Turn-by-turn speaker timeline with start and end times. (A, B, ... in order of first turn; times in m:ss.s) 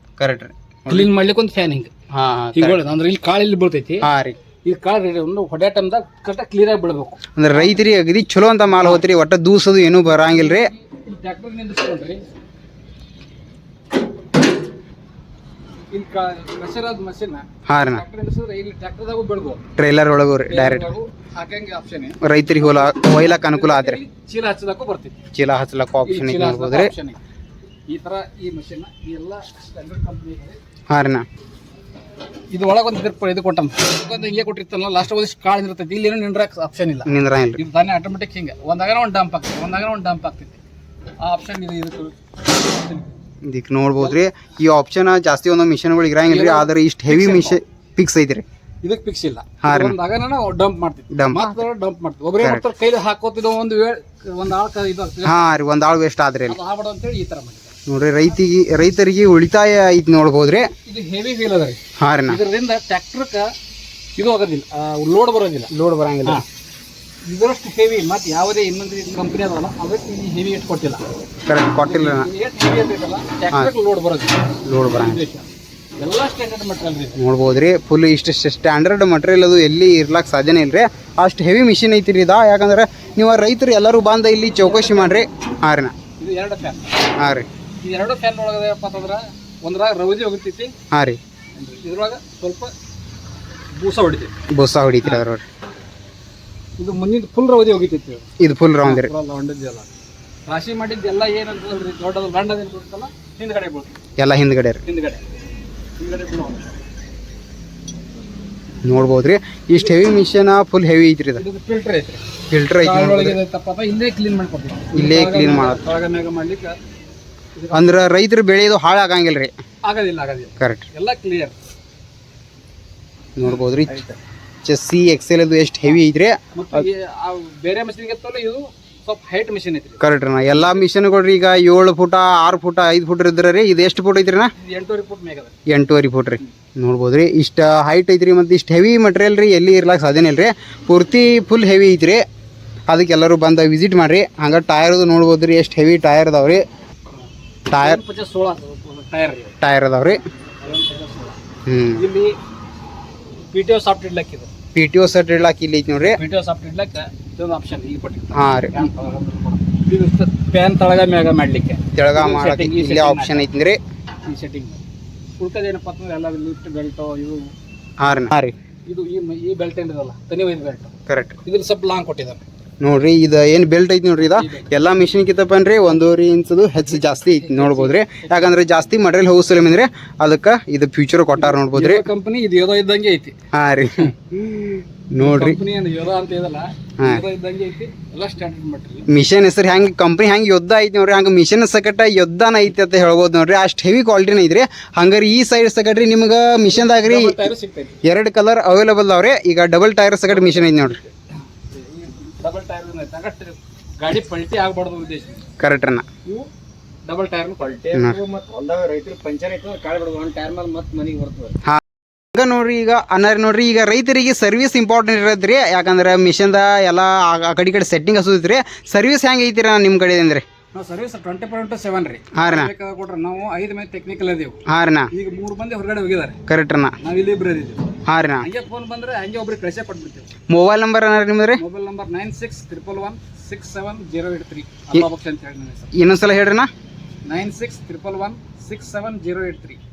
0:00.2-0:01.1 A
0:00.9-0:01.9 B
0:02.1-0:02.8 A
0:02.5-0:04.0 B
0:04.0-0:04.4 A
0:04.6-0:07.6 B
0:07.4-0:10.7 A
0:10.3-0:12.2 B
0:15.9-0:19.6 B
0:17.7-0:18.0 A
0:19.8-0:20.9 A
0:20.5-0:25.2 B
0:22.2-0:24.0 A
0:25.3-0:26.9 A
0:26.0-0:27.2 B
0:27.9-0:30.6 B
0:30.9-0:31.2 A
0:32.5-0:40.6 B
0:37.0-0:37.6 A
0:41.2-0:43.1 B
0:43.4-0:48.4 A
0:46.3-0:47.6 B
0:48.8-0:55.4 B
0:49.6-0:50.0 A
0:51.1-0:51.6 A
0:55.2-0:56.6 A
0:56.5-0:57.7 B
0:57.9-1:00.7 A
1:00.9-1:03.5 B
1:02.0-1:02.4 A
1:04.2-1:05.7 B
1:05.7-1:06.4 A
1:07.3-1:11.0 B
1:11.5-1:12.3 A
1:11.8-1:15.4 B
1:14.6-1:15.2 A
1:16.0-1:17.2 B
1:17.2-1:25.9 A
1:24.6-1:25.2 B
1:26.2-1:26.9 B
1:27.2-1:27.5 A
1:27.8-1:30.7 B
1:30.9-1:31.2 A
1:31.6-1:32.7 B
1:33.7-1:34.3 B
1:34.5-1:35.4 A
1:36.8-1:38.2 B
1:38.4-1:39.1 A
1:38.8-1:39.9 B
1:40.5-1:43.9 B
1:44.2-1:44.8 A
1:44.8-1:45.2 B
1:46.0-1:46.8 B
1:48.8-1:51.4 A
1:51.4-1:52.2 B
1:52.5-1:53.4 A
1:52.8-1:56.7 B
1:54.9-1:55.8 A
1:57.6-1:57.9 B
1:57.7-1:59.5 A
1:59.8-2:01.5 B
2:00.6-2:00.9 A
2:03.4-2:04.0 A
2:03.9-2:04.1 C
2:04.6-2:06.8 A
2:06.5-2:10.0 B
2:10.0-2:14.5 A
2:14.6-2:15.5 B
2:15.7-2:22.2 A
2:22.9-2:26.6 A
2:27.7-2:28.0 A
2:27.7-2:29.6 B
2:29.6-2:30.2 A
2:30.6-2:31.4 B
2:31.6-2:32.0 A
2:31.9-2:32.3 B
2:33.5-2:34.5 B
2:34.7-2:36.2 A
2:36.1-2:43.4 B
2:38.3-2:38.8 A
2:41.9-2:43.8 A
2:44.3-2:44.8 B
2:45.4-2:47.5 B
2:48.0-2:48.5 A
2:48.9-2:50.9 B
2:51.1-2:51.4 A
2:51.4-2:52.4 B
2:52.8-3:02.0 A
2:54.3-2:54.7 B
2:57.4-2:58.6 B
3:01.4-3:03.3 B
3:03.5-3:04.1 A
3:04.0-3:09.1 B
3:05.1-3:05.6 A
3:09.1-3:17.5 A
3:16.8-3:18.0 B
3:18.0-3:21.0 A
3:20.4-3:20.9 B
3:21.7-3:25.4 B
3:25.6-3:26.0 A
3:27.0-3:27.7 B
3:27.6-3:31.6 C
3:32.3-3:40.4 A
3:40.7-3:44.6 B
3:42.3-3:42.7 A
3:44.7-3:45.1 A
3:45.1-3:46.4 B
3:46.5-3:46.9 A
3:47.0-3:47.8 B
3:48.0-3:48.5 A
3:48.4-3:50.3 B
3:50.5-3:51.6 A
3:51.6-3:55.9 B
3:55.9-3:56.7 A
3:57.2-3:59.8 B